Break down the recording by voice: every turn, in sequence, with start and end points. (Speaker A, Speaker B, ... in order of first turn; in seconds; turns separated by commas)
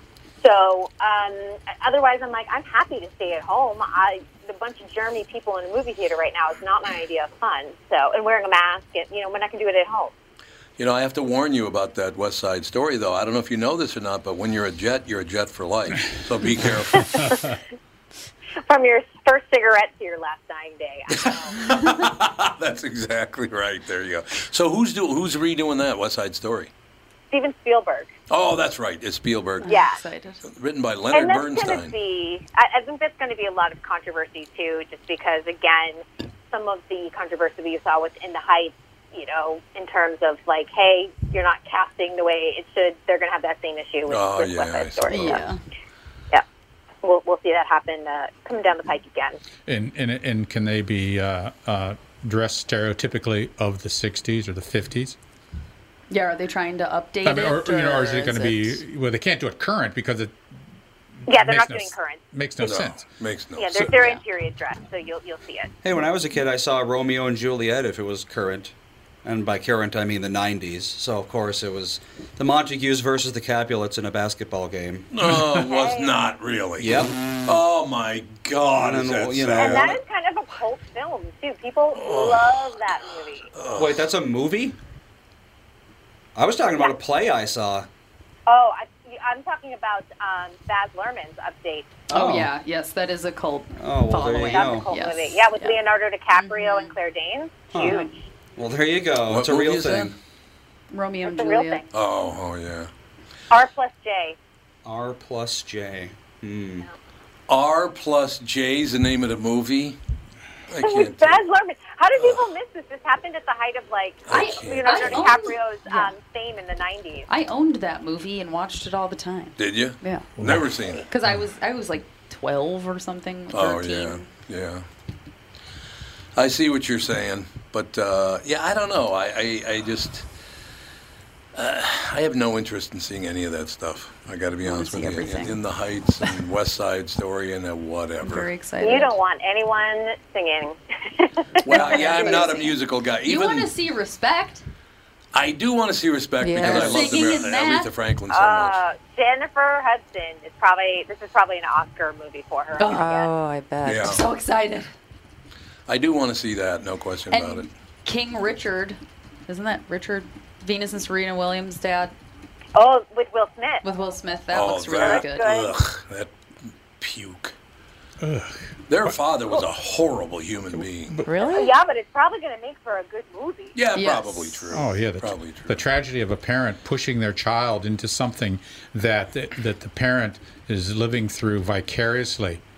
Speaker A: 0.4-10.1, Speaker B: 10.8-17.4, Speaker A: 17.1-17.4, Speaker A: 18.7-21.8, Speaker B: 21.1-26.7, Speaker A: 27.3-28.1, Speaker B: 28.3-29.8, Speaker C: 29.6-30.4, Speaker A: 29.6-30.0, Speaker B: 30.4-31.9, Speaker A: 31.1-45.5, Speaker B: 44.1-45.5, Speaker C: 45.1-45.6, Speaker A: 47.0-49.4, Speaker D: 49.7-55.2, Speaker C: 56.1-58.8, Speaker D: 57.2-60.4, Speaker D: 61.3-63.1, Speaker A: 61.3-62.2, Speaker B: 62.6-64.0, Speaker A: 63.6-65.7, Speaker C: 63.9-64.2, Speaker E: 65.8-68.7, Speaker E: 69.2-75.1, Speaker B: 75.1-80.0, Speaker A: 75.5-76.2, Speaker E: 76.8-77.2, Speaker E: 78.8-79.9, Speaker A: 79.6-83.5, Speaker B: 81.9-82.8, Speaker B: 83.5-84.0, Speaker E: 83.8-84.8, Speaker E: 86.4-87.9, Speaker A: 88.5-92.0, Speaker E: 92.1-92.5, Speaker C: 92.1-95.8, Speaker E: 93.8-94.9, Speaker A: 94.5-98.1, Speaker C: 96.3-97.0, Speaker E: 97.7-98.0, Speaker C: 97.8-98.1, Speaker E: 98.6-100.2, Speaker B: 99.3-100.2, Speaker C: 100.9-101.8, Speaker A: 101.2-101.9, Speaker B: 101.9-102.9, Speaker A: 103.5-104.4, Speaker E: 104.8-106.9, Speaker B: 107.5-110.0, Speaker B: 110.7-111.4, Speaker A: 110.8-117.3, Speaker B: 112.2-112.5, Speaker B: 114.3-115.3, Speaker C: 114.3-116.1, Speaker C: 117.3-120.3, Speaker B: 119.6-121.0, Speaker D: 120.4-120.7, Speaker C: 121.0-124.3, Speaker B: 123.5-124.8, Speaker B: 126.4-130.3, Speaker B: 131.6-138.5, Speaker C: 134.6-135.6, Speaker C: 138.2-139.2, Speaker A: 138.8-142.5, Speaker B: 141.6-143.7, Speaker C: 141.7-144.6, Speaker B: 145.3-148.8, Speaker F: 146.4-147.0, Speaker C: 146.6-147.9, Speaker A: 148.3-153.3, Speaker C: 152.8-153.1, Speaker F: 152.9-154.2, Speaker B: 153.8-154.2, Speaker C: 153.9-154.9, Speaker B: 155.9-157.7, Speaker C: 157.3-162.1, Speaker A: 162.8-163.8, Speaker C: 163.8-165.5, Speaker B: 164.5-166.3, Speaker A: 164.9-165.8, Speaker B: 167.0-167.6, Speaker D: 168.2-169.1, Speaker B: 168.9-171.2, Speaker F: 171.3-171.7, Speaker A: 171.5-173.8, Speaker B: 173.8-175.8, Speaker C: 174.0-174.6, Speaker D: 174.7-182.6